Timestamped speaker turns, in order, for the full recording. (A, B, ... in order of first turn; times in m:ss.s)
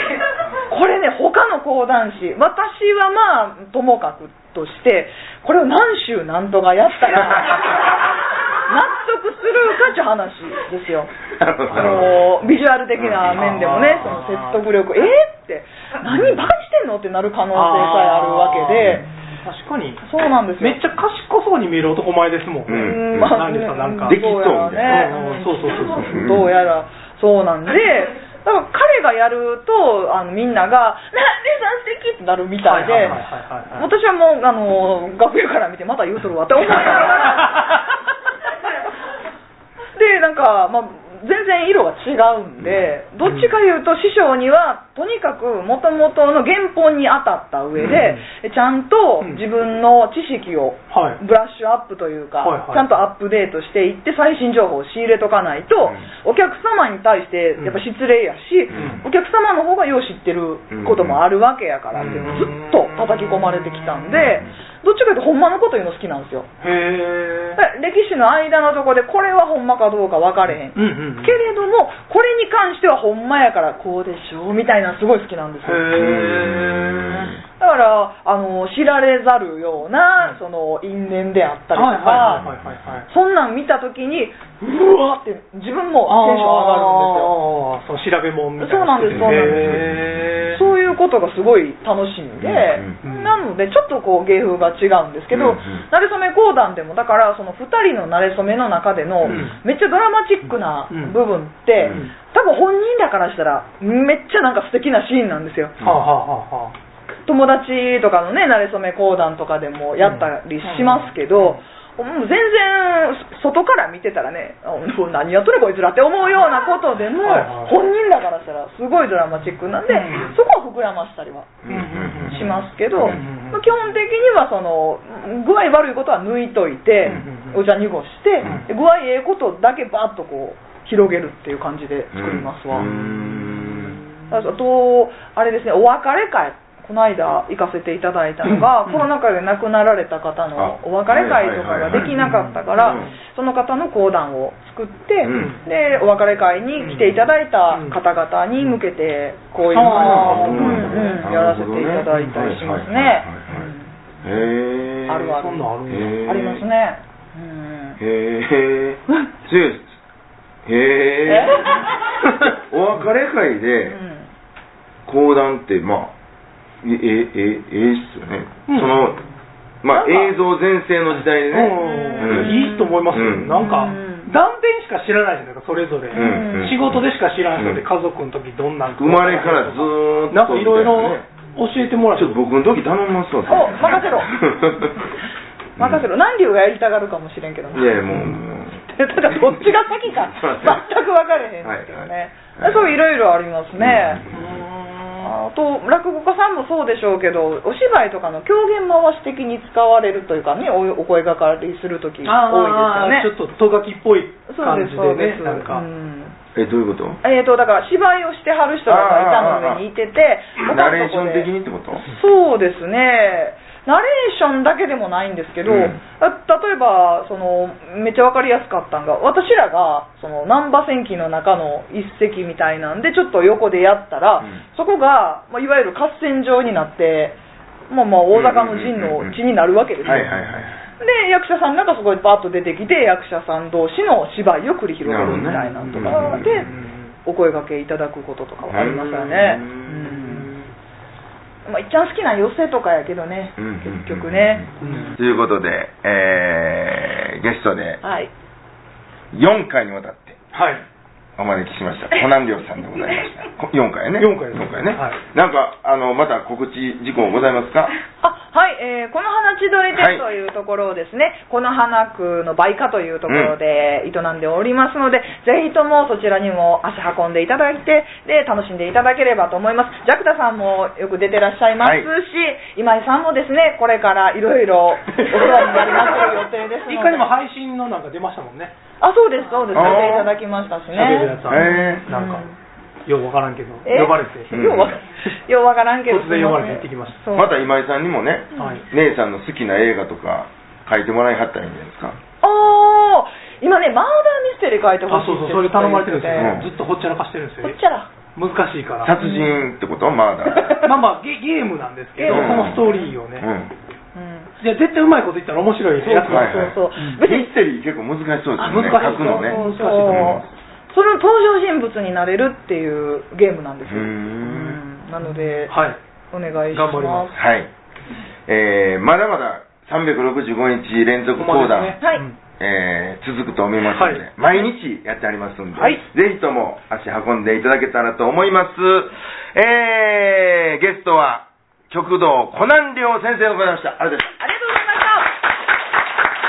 0:00.7-0:07.9 A
0:08.6-0:11.1 A
0:11.4-0:12.2 B
0:11.7-0:12.1 C
0:11.7-0:19.1 A
0:13.0-0:13.4 B
0:13.3-0:14.6 C
0:17.5-0:24.2 C
0:20.0-0:20.8 A
0:22.7-0:23.4 B
0:22.7-0:33.2 A
0:24.1-0:25.1 B
0:24.8-0:26.1 C
0:26.0-0:26.5 B
0:32.6-0:33.9 C
0:33.8-0:37.8 A
0:37.2-0:37.6 C
0:40.0-1:06.5 A
0:43.2-0:43.5 C
0:47.9-0:48.2 C
0:50.9-0:51.2 C
0:52.4-0:52.9 C
0:57.6-0:57.8 C
0:58.7-0:59.0 B
0:58.7-0:59.0 C
1:00.7-1:01.2 B
1:02.0-1:02.5 B
1:02.0-1:04.4 C
1:04.2-1:04.5 B
1:06.6-1:07.6 C
1:07.6-1:16.2 A
1:10.5-1:11.4 C
1:15.6-1:17.3 C
1:15.9-1:17.4 B
1:17.6-1:22.4 A
1:21.7-1:23.1 C
1:22.1-1:22.9 B
1:23.1-1:27.3 A
1:26.1-1:30.6 C
1:28.6-1:30.0 A
1:29.0-1:30.2 B
1:30.5-1:45.8 A
1:32.4-1:33.0 B
1:33.0-1:33.4 C
1:35.3-1:35.9 B
1:39.2-1:39.5 B
1:39.2-1:39.6 C
1:40.9-1:41.2 C
1:41.8-1:42.1 C
1:41.8-1:42.1 B
1:45.8-1:46.1 B
1:45.8-1:46.8 C
1:47.2-2:01.6 A
1:50.0-1:51.6 C
1:57.2-1:57.8 C
1:59.9-2:00.3 C
2:01.7-2:02.4 B
2:01.7-2:03.7 C
2:02.3-2:12.9 A
2:07.0-2:07.6 C
2:08.4-2:08.7 C
2:12.1-2:14.0 B
2:12.8-2:14.0 C
2:14.3-2:33.9 A
2:18.5-2:19.1 C
2:20.6-2:22.2 B
2:21.9-2:23.1 C
2:22.8-2:23.1 B
2:25.2-2:25.6 B
2:25.3-2:25.6 C
2:26.8-2:28.0 C
2:29.7-2:31.2 C
2:29.7-2:33.7 B
2:34.2-2:36.6 B
2:35.1-2:38.0 A
2:35.4-2:36.2 C
2:38.0-2:40.0 B
2:40.7-2:41.8 B
2:41.3-2:42.0 A
2:42.4-2:44.0 B
2:43.8-2:44.3 A
2:45.1-2:46.1 B
2:46.8-2:49.2 B
2:48.7-2:49.1 C
2:49.8-2:53.6 B
2:49.9-2:50.4 A
2:51.5-3:02.4 C
2:51.8-2:54.3 A
2:56.1-2:57.0 B
2:56.1-2:56.8 A
2:57.6-2:57.8 B
2:59.0-3:01.2 B
3:02.1-3:05.1 B
3:03.5-3:04.4 A
3:05.8-3:06.1 B
3:05.8-3:08.0 A
3:07.7-3:10.9 B
3:08.9-3:14.2 A
3:11.6-3:13.0 B
3:13.8-3:14.4 B
3:14.3-3:15.4 C
3:15.2-3:23.3 A
3:22.2-3:25.8 C
3:24.5-3:26.4 A
3:26.6-3:27.2 B
3:27.2-3:31.5 A
3:28.9-3:29.8 B
3:30.6-3:32.1 B
3:32.0-3:47.4 A
3:35.7-3:36.0 B
3:47.9-3:50.3 A
3:48.3-3:49.4 B
3:50.0-3:50.8 B
3:50.2-3:50.6 C
3:51.0-3:56.7 A
3:55.0-3:56.6 B
3:55.2-3:57.1 C
3:57.2-4:00.5 A
3:58.7-4:00.4 B
4:01.7-4:05.2 A
4:03.6-4:08.0 B
4:04.8-4:05.2 C
4:08.0-4:08.3 A
4:09.3-4:10.4 B
4:10.5-4:10.8 C
4:11.4-4:18.0 B
4:14.2-4:15.2 C
4:18.2-4:37.3 A
4:19.9-4:20.2 B
4:23.3-4:23.6 B
4:31.8-4:32.1 B
4:35.5-4:36.0 C
4:36.9-4:38.7 C
4:39.0-4:42.6 A
4:39.7-4:40.3 B
4:39.8-4:40.1 C
4:40.9-4:42.5 C
4:41.5-4:42.0 B
4:43.1-4:44.5 C
4:43.8-4:47.6 A
4:44.5-4:45.0 B
4:46.1-4:47.2 C
4:47.3-4:52.2 B
4:48.6-4:48.8 A
4:48.6-4:48.8 C
4:52.4-4:56.6 A
4:55.1-4:57.8 C
4:56.4-4:56.7 B
4:57.6-4:58.1 A
4:58.4-4:59.2 C
4:59.0-5:00.8 B
4:59.2-4:59.6 A
5:00.5-5:00.9 A
5:00.8-5:03.5 C
5:02.2-5:03.1 A
5:02.3-5:02.8 B
5:03.4-5:03.7 B
5:04.1-5:04.5 A
5:04.6-5:07.2 C
5:06.0-5:07.5 A
5:06.3-5:10.5 B
5:08.6-5:15.8 A
5:08.6-5:10.5 C
5:13.8-5:14.8 B
5:15.6-5:16.0 C
5:16.3-5:17.4 A
5:16.7-5:17.4 C
5:17.3-5:17.7 B
5:18.5-5:22.0 B
5:21.4-5:22.4 C
5:22.6-5:34.3 B
5:23.9-5:24.3 C
5:34.4-5:35.3 A